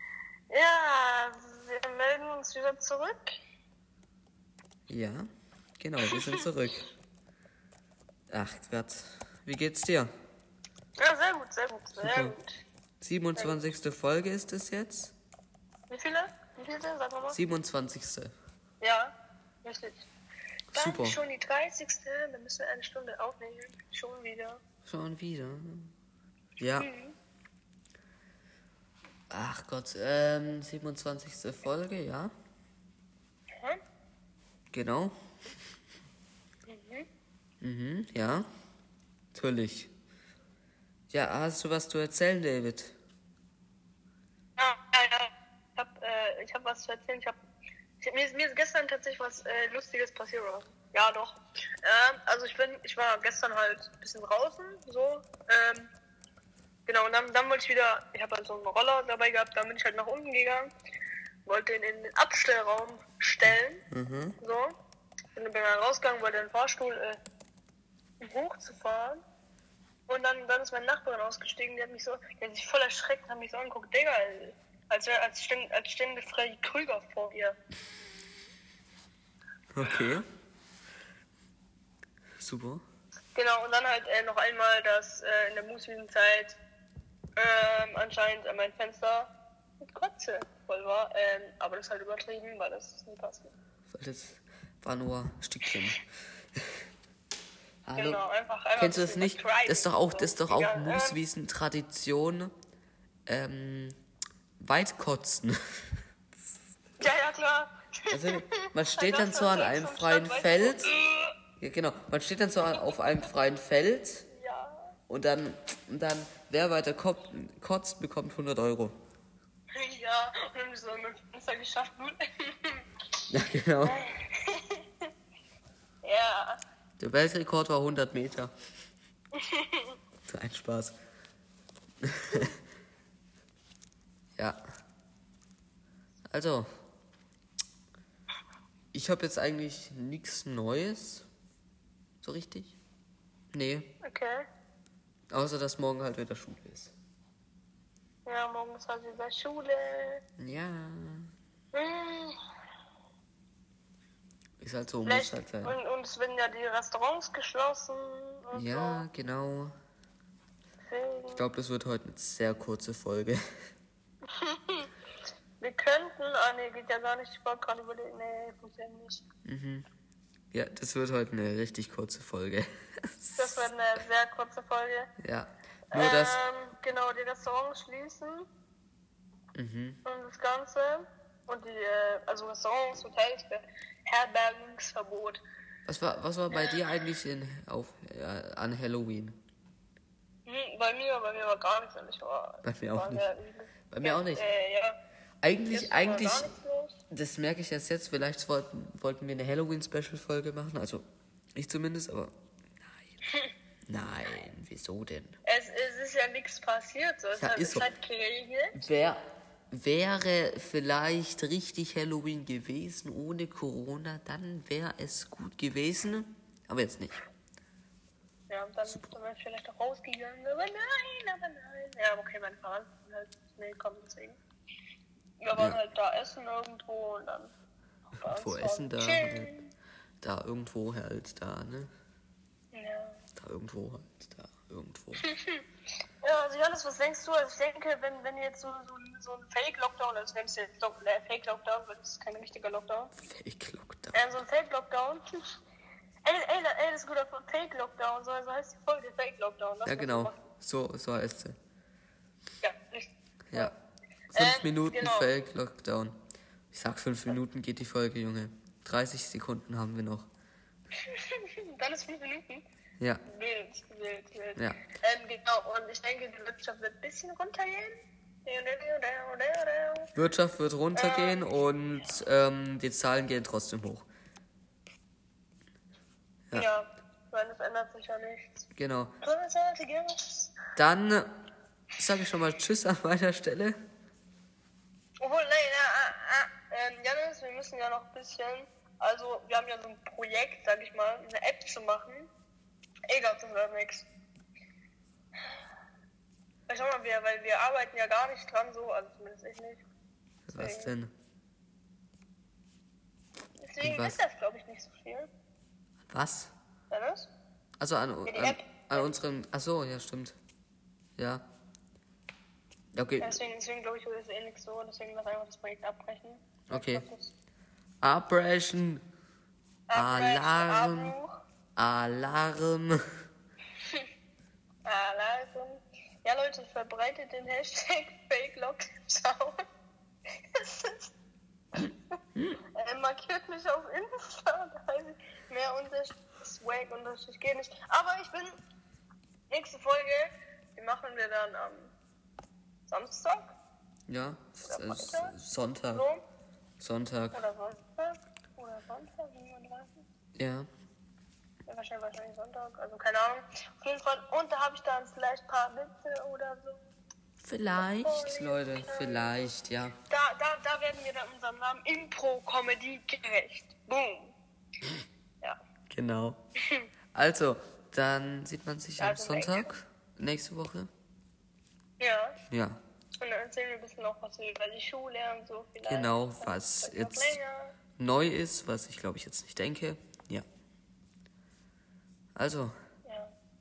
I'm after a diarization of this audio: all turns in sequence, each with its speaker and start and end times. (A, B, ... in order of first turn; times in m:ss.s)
0:00.5-0:03.3 A
0:04.9-0:05.2 B
0:05.8-0:06.9 B
0:06.0-0:06.4 A
0:08.3-0:10.1 B
0:11.0-0:12.6 A
0:12.0-0:12.4 B
0:13.0-0:15.1 B
0:15.9-0:17.4 A
0:17.3-0:18.3 B
0:18.8-0:20.1 A
0:20.7-0:21.2 B
0:20.7-0:24.6 A
0:24.8-0:25.9 B
0:26.6-0:26.9 B
0:26.8-0:27.1 A
0:29.3-0:32.3 B
0:34.7-0:35.2 B
0:36.7-0:37.1 A
0:37.6-0:38.5 B
0:39.3-0:39.9 B
0:41.1-0:43.0 B
0:44.6-0:47.4 A
0:48.0-0:55.9 A
0:56.9-1:00.7 A
1:01.5-1:03.8 A
1:03.5-1:04.4 B
1:04.4-1:04.7 A
1:05.4-1:07.2 A
1:08.2-1:09.2 A
1:10.1-1:17.6 A
1:19.7-1:20.3 B
1:22.4-1:22.8 B
1:23.3-1:26.6 A
1:27.4-1:33.5 A
1:33.9-1:36.0 B
1:37.8-1:38.2 B
1:38.0-1:41.2 A
1:38.8-1:42.5 B
1:43.3-1:44.0 B
1:44.6-1:45.6 B
1:47.0-1:51.3 A
1:48.1-1:51.0 B
1:51.6-1:54.3 B
1:54.3-1:54.9 A
1:55.1-1:59.0 B
1:59.8-2:02.8 A
2:03.3-2:04.0 B
2:03.8-2:05.0 A
2:06.0-2:06.6 A
2:07.0-2:08.5 B
2:09.4-2:10.0 A
2:10.3-2:11.0 B
2:12.0-2:12.6 B
2:16.3-2:16.7 B
2:18.9-2:21.3 B
2:22.2-2:22.8 B
2:23.5-2:23.9 B
2:24.0-2:24.4 A
2:25.3-2:26.9 B
2:28.3-2:30.2 A
2:30.4-2:31.3 B
2:31.7-2:32.4 A
2:34.6-2:35.8 B
2:35.0-2:39.0 A
2:38.5-2:39.7 B
2:40.8-2:41.5 A
2:41.4-2:43.4 B
2:44.3-2:44.9 A
2:45.6-2:49.2 A
2:49.4-2:49.8 B
2:50.5-2:53.6 B
2:53.4-2:55.1 A
2:55.2-2:56.4 B
2:55.9-2:58.5 A
2:59.6-3:00.0 B
3:00.0-3:05.4 A
3:05.9-3:09.4 B
3:06.5-3:06.9 A
3:10.5-3:15.0 A
3:12.6-3:13.2 B
3:13.9-3:14.4 B
3:15.4-3:16.5 B
3:15.7-3:17.0 A
3:17.1-3:21.0 B
3:21.6-3:22.3 B
3:23.9-3:25.4 B
3:25.5-3:28.8 A
3:27.4-3:27.9 B
3:28.8-3:37.2 B
3:38.5-3:44.4 A
3:38.9-3:39.2 B
3:45.4-3:47.5 A
3:45.5-3:45.8 B
3:48.1-3:49.7 A
3:48.2-3:49.6 B
3:50.2-3:51.9 B
3:52.7-3:53.2 A
3:53.4-3:55.3 B
3:55.2-3:55.6 A
3:56.2-4:03.1 A
4:03.2-4:04.2 B
4:04.1-4:05.3 A
4:06.2-4:10.4 A
4:09.9-4:11.6 B
4:12.6-4:13.7 A
4:14.3-4:16.2 B
4:14.3-4:15.3 A
4:16.7-4:20.3 B
4:21.0-4:22.6 A
4:23.0-4:23.2 B
4:23.3-4:27.9 A
4:28.4-4:30.1 A
4:30.2-4:34.1 B
4:31.0-4:31.5 A
4:36.5-4:38.7 A
4:38.8-4:39.2 B
4:39.2-4:40.6 A
4:40.8-4:41.4 B
4:42.0-4:43.8 B
4:45.2-4:52.3 A
4:53.1-4:54.1 A
4:56.7-4:59.8 A
5:00.5-5:01.1 B
5:00.5-5:00.9 A
5:03.6-5:05.3 A
5:03.8-5:04.2 B
5:06.1-5:06.5 B
5:06.9-5:07.3 A
5:07.8-5:10.4 B
5:08.3-5:09.1 A
5:11.2-5:11.4 B
5:13.0-5:13.4 B
5:13.2-5:17.3 A
5:16.7-5:17.0 B
5:18.0-5:19.0 B
5:19.9-5:21.3 A
5:19.9-5:21.2 B
5:21.8-5:23.0 B
5:24.8-5:29.6 A
5:30.6-5:31.1 A
5:32.8-5:38.5 A
5:39.5-5:41.9 A
5:42.9-5:43.6 A
5:44.1-5:46.0 B
5:44.6-5:45.4 A
5:45.9-5:46.2 A
5:46.8-5:47.4 B
5:47.3-5:50.0 A
5:50.4-5:50.7 B
5:51.7-5:56.8 A
5:57.4-6:00.0 B
5:57.8-5:59.5 A
6:00.1-6:04.4 A
6:05.9-6:06.4 B
6:07.1-6:10.9 B
6:09.0-6:09.8 A
6:12.0-6:12.4 A
6:12.5-6:12.8 B
6:13.2-6:17.8 A
6:15.9-6:17.4 B
6:18.0-6:20.4 B
6:22.4-6:22.7 B
6:23.1-6:23.3 A